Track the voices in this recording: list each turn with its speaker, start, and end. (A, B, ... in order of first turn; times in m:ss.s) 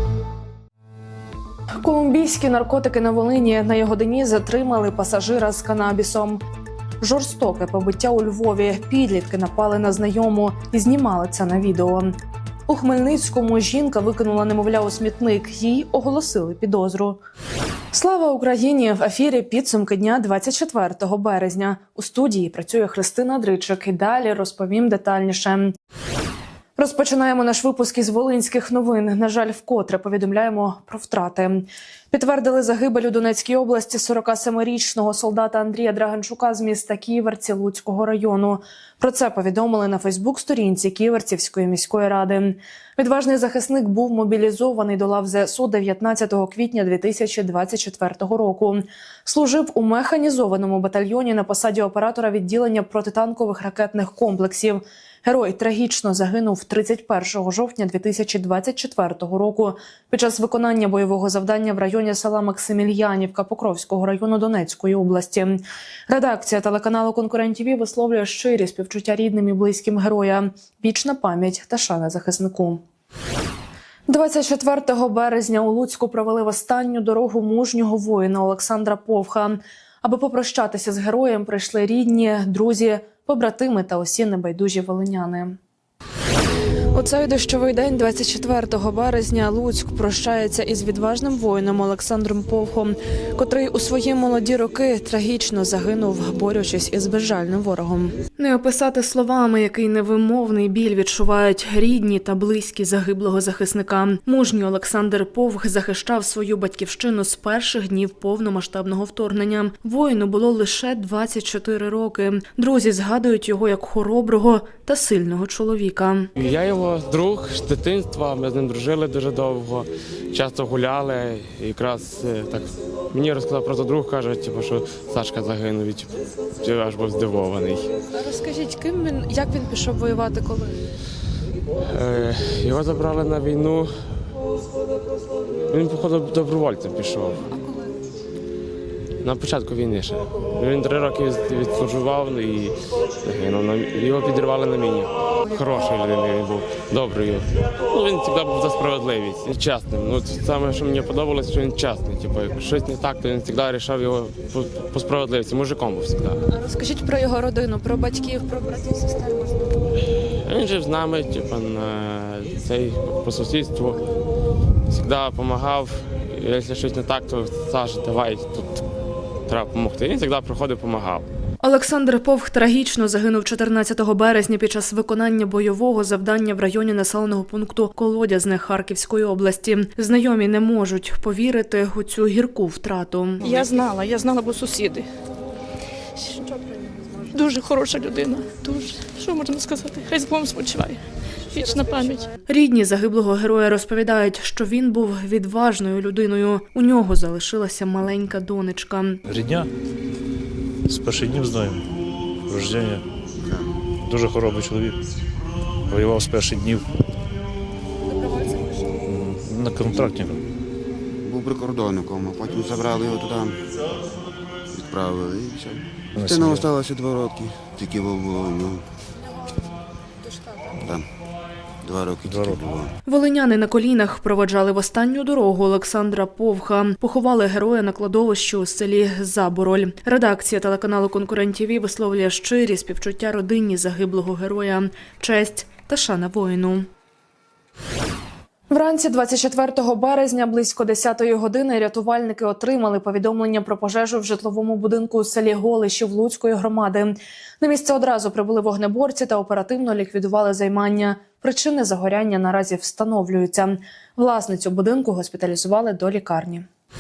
0:01.8-0:06.4 A
0:07.0-0:12.1 A
0:12.7-0:17.2 A
0:17.9-0:25.7 A
0:26.8-1:12.8 A
1:14.1-1:25.6 A
1:26.9-1:56.3 A
1:56.4-2:07.9 B
2:08.2-2:10.7 A
2:11.9-2:14.0 B
2:15.7-2:17.4 B
2:19.2-2:36.4 B
2:36.6-2:39.5 A
2:40.4-2:44.0 B
2:44.9-2:48.8 B
2:49.5-2:51.3 B
2:51.6-3:03.5 A
3:03.4-3:05.1 C
3:06.2-3:06.6 C
3:07.3-3:12.3 C
3:12.4-3:19.2 A
3:19.3-3:19.7 D
3:20.9-3:21.8 D
3:22.5-3:23.0 D
3:23.4-3:23.7 E
3:24.0-3:25.0 D
3:25.9-3:26.8 D
3:29.0-3:30.4 D
3:31.2-3:33.6 E
3:34.7-3:38.8 E
3:36.2-3:36.7 D
3:40.8-3:41.0 E
3:41.8-3:42.9 E
3:42.2-3:42.6 D
3:43.0-3:56.9 A
3:58.7-4:16.7 A